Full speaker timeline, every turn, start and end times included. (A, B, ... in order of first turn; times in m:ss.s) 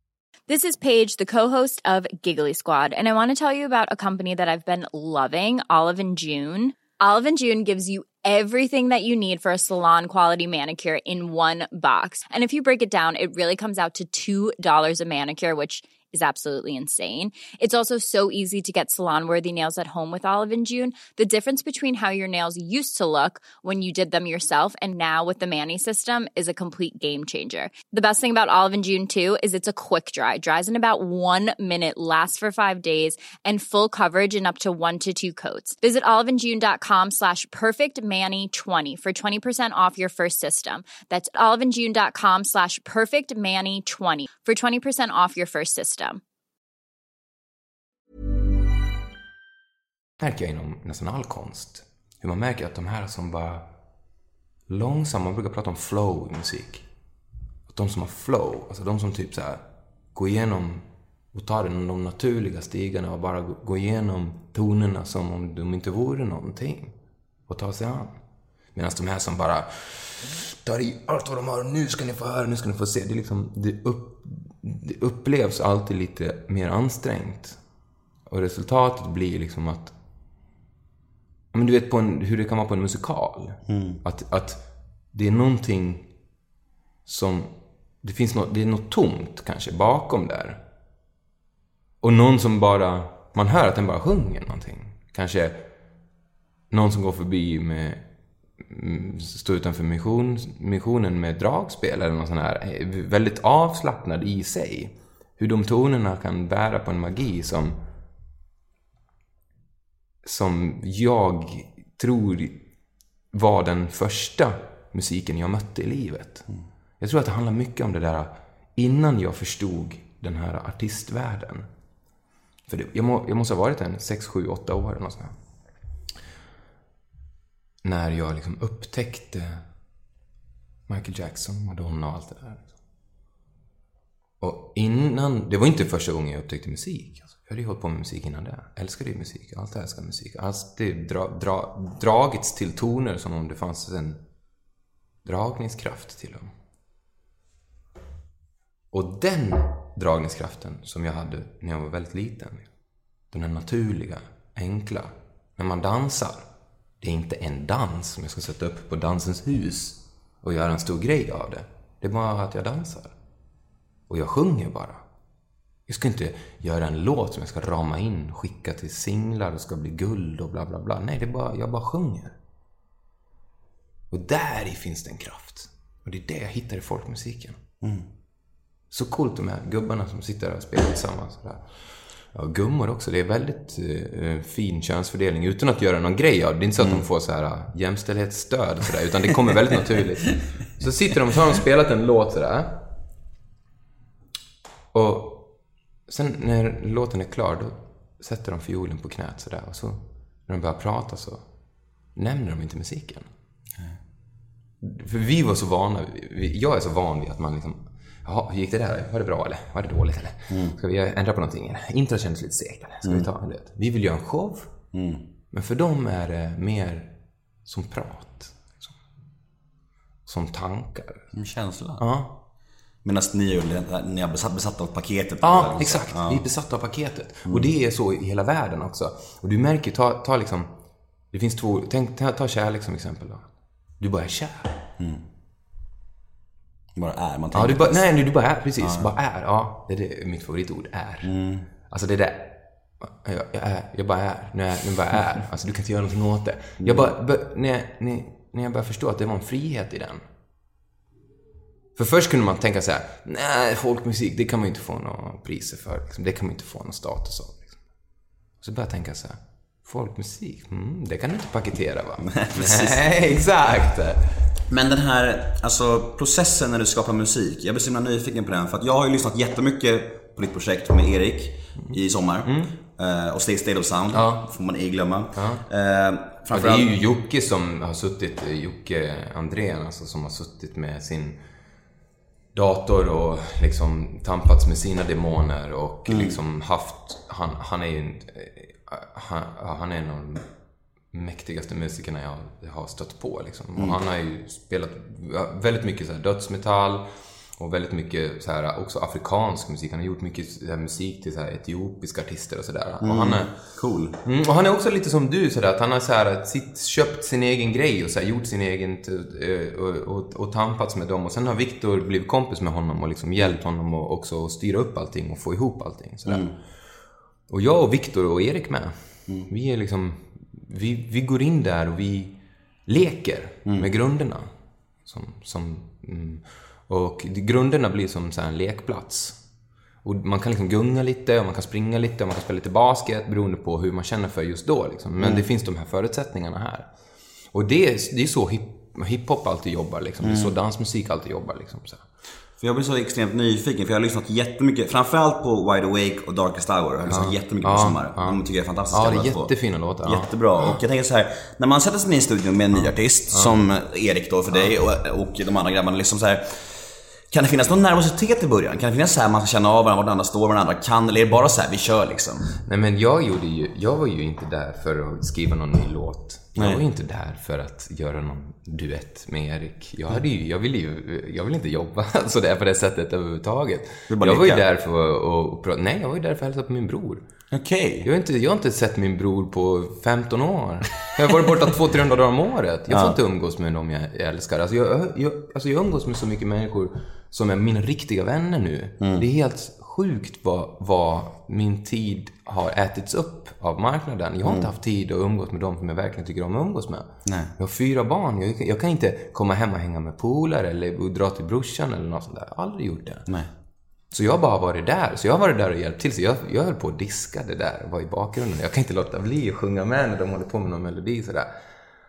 0:00.5-0:46.2 A
0:50.2-0:53.6 B
0:54.7-0:56.8 B
0:57.7-0:59.6 B
1:00.1-1:06.9 B
1:07.5-1:08.2 B
1:08.7-1:17.6 B
1:18.3-1:19.9 B
1:21.5-1:26.1 B
1:23.7-1:24.0 C
1:27.0-1:30.6 B
1:32.0-1:35.7 B
1:36.7-1:38.0 B
1:38.6-1:47.8 B
1:50.2-1:52.6 B
1:53.3-1:56.4 B
1:57.0-2:01.7 B
2:02.7-2:05.4 B
2:07.8-2:09.6 B
2:10.9-2:12.7 B
2:14.4-2:24.2 B
2:25.2-2:26.5 B
2:28.9-2:32.7 B
2:33.3-2:36.4 B
2:37.0-2:43.1 B
2:44.1-2:45.0 B
2:45.9-2:52.4 B
2:54.1-2:57.6 B
2:58.9-3:01.6 B
3:02.3-3:12.8 B
3:14.9-3:15.5 B
3:16.1-3:21.4 B
3:22.1-3:23.3 B
3:24.8-3:34.7 B
3:30.5-3:30.8 C
3:34.9-3:35.2 C
3:35.5-3:37.1 B
3:37.6-3:39.0 B
3:40.2-3:41.3 B
3:41.3-3:42.0 C
3:42.0-3:42.4 B
3:43.0-3:46.4 C
3:45.4-3:50.7 B
3:51.3-3:53.5 B
3:54.0-3:54.8 B
3:57.0-3:58.0 C
3:57.5-4:01.3 B
3:58.8-3:59.1 C
4:01.2-4:01.7 C
4:01.9-4:10.2 B
4:06.8-4:07.1 C
4:12.0-4:17.7 B
4:18.6-4:24.3 B
4:22.2-4:23.0 C
4:24.7-4:36.9 C
4:31.9-4:32.7 B
4:34.1-4:34.5 B
4:35.3-4:35.6 B
4:36.5-4:41.4 B
4:42.5-4:50.4 B
4:46.1-4:46.4 C
4:51.1-4:57.0 B
4:57.6-5:03.5 B
5:03.0-5:04.2 C
5:04.2-5:16.5 B
5:16.3-5:16.5 C
5:17.5-5:24.5 B
5:25.0-5:29.4 B
5:30.0-5:36.9 B
5:35.2-5:35.4 C
5:37.5-5:42.0 B
5:40.2-5:40.5 C
5:42.6-6:02.5 C
5:47.1-5:48.4 B
5:48.9-5:50.8 B
5:53.3-5:53.6 B
6:02.6-6:17.2 B
6:06.6-6:06.8 C
6:14.1-6:14.6 C
6:17.5-6:18.1 C
6:18.0-6:43.3 B
6:22.9-6:23.2 C
6:29.0-6:29.2 C
6:37.2-6:37.5 C
6:44.1-6:51.5 B